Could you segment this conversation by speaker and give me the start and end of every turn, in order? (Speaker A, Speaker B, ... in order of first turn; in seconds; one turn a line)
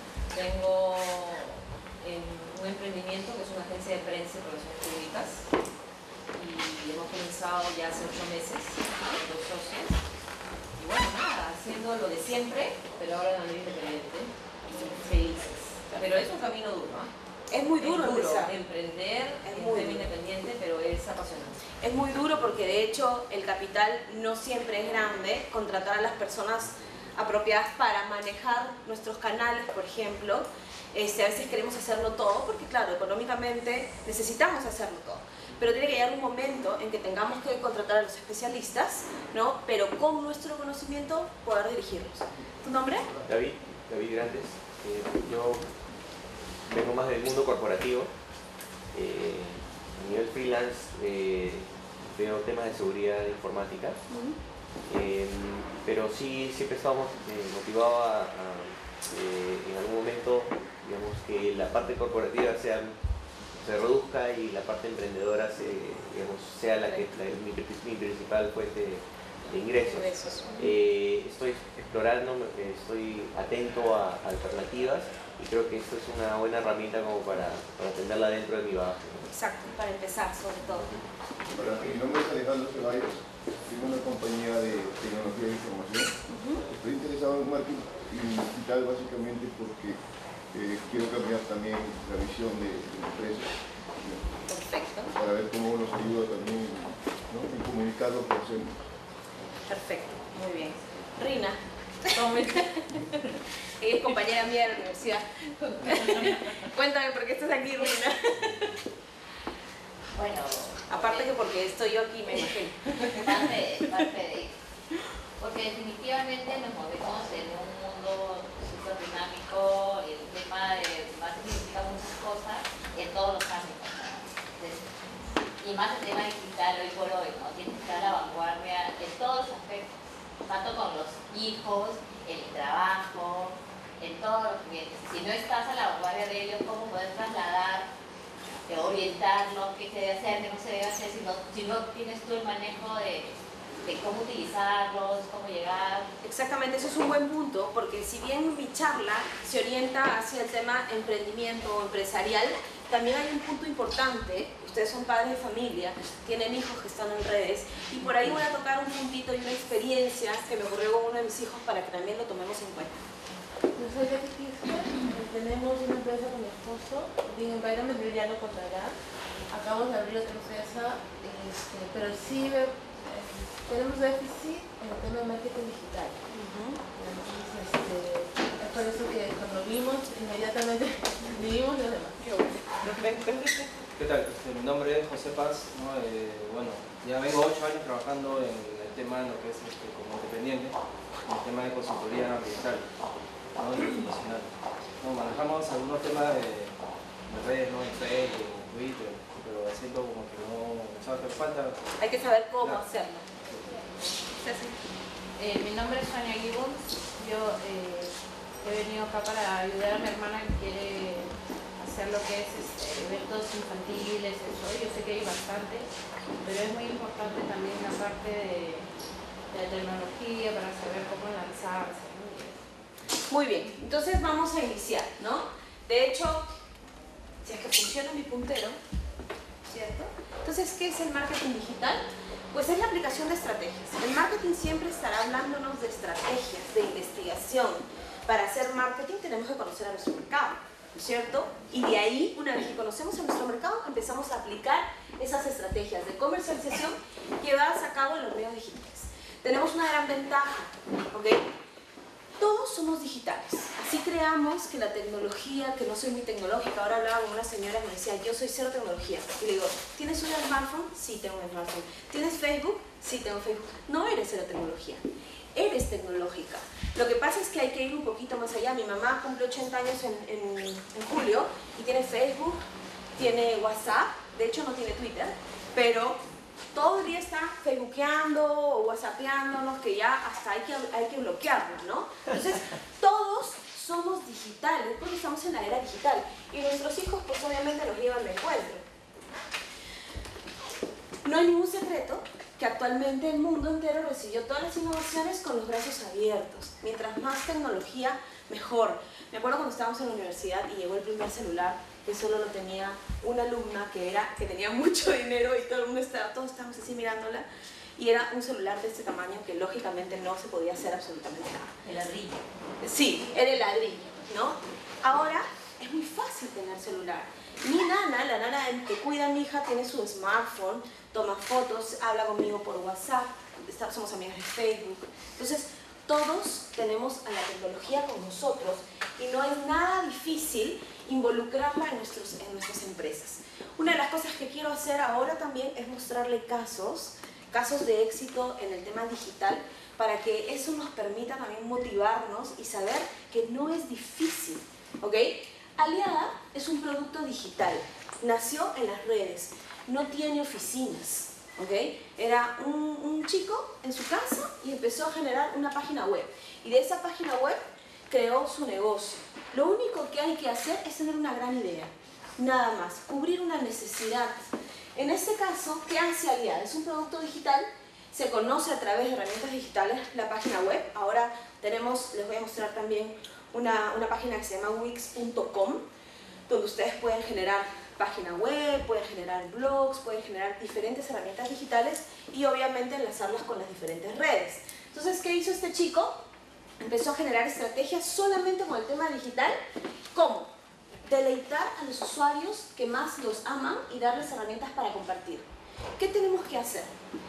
Speaker A: 0.3-5.4
Speaker A: 6.3-10.0
Speaker A: 10.8-17.1
Speaker B: 17.5-18.6
Speaker A: 17.8-21.6
Speaker B: 19.4-20.1
Speaker B: 21.8-43.1
Speaker C: 43.3-45.7
Speaker C: 46.6-48.1
Speaker C: 48.9-54.0
Speaker B: 54.1-54.4
Speaker C: 54.9-62.9
Speaker C: 63.5-79.3
Speaker B: 69.8-70.6
Speaker B: 79.3-80.9
Speaker D: 81.5-86.1
Speaker B: 86.3-86.6
Speaker D: 86.7-90.0
Speaker D: 90.5-94.4
Speaker B: 94.5-95.1
Speaker D: 95.1-98.8
Speaker B: 99.7-108.7
Speaker E: 110.1-111.4
Speaker B: 110.9-112.8
Speaker E: 113.2-114.6
Speaker E: 115.4-124.8
Speaker E: 125.6-129.9
Speaker E: 130.4-137.9
Speaker E: 138.7-146.1
Speaker B: 146.2-163.1
Speaker F: 163.7-168.9
Speaker F: 169.5-176.3
Speaker B: 176.3-176.8
Speaker F: 176.9-182.2
Speaker B: 182.2-183.7
Speaker G: 184.0-192.8
Speaker G: 193.6-201.9
Speaker B: 202.0-203.3
Speaker G: 203.4-203.8
Speaker H: 205.4-215.9
Speaker H: 216.4-218.9
Speaker H: 219.5-222.6
Speaker B: 223.3-226.5
Speaker B: 227.4-228.8
Speaker B: 229.6-251.5
Speaker B: 252.4-272.6
Speaker B: 273.1-276.2
Speaker B: 276.7-288.8
Speaker B: 291.2-307.4
Speaker B: 308.0-311.7
Speaker A: 311.8-312.4
Speaker B: 312.8-375.8
Speaker B: 376.5-386.2
Speaker B: 386.8-389.6
Speaker B: 390.1-390.5
Speaker B: 391.0-396.9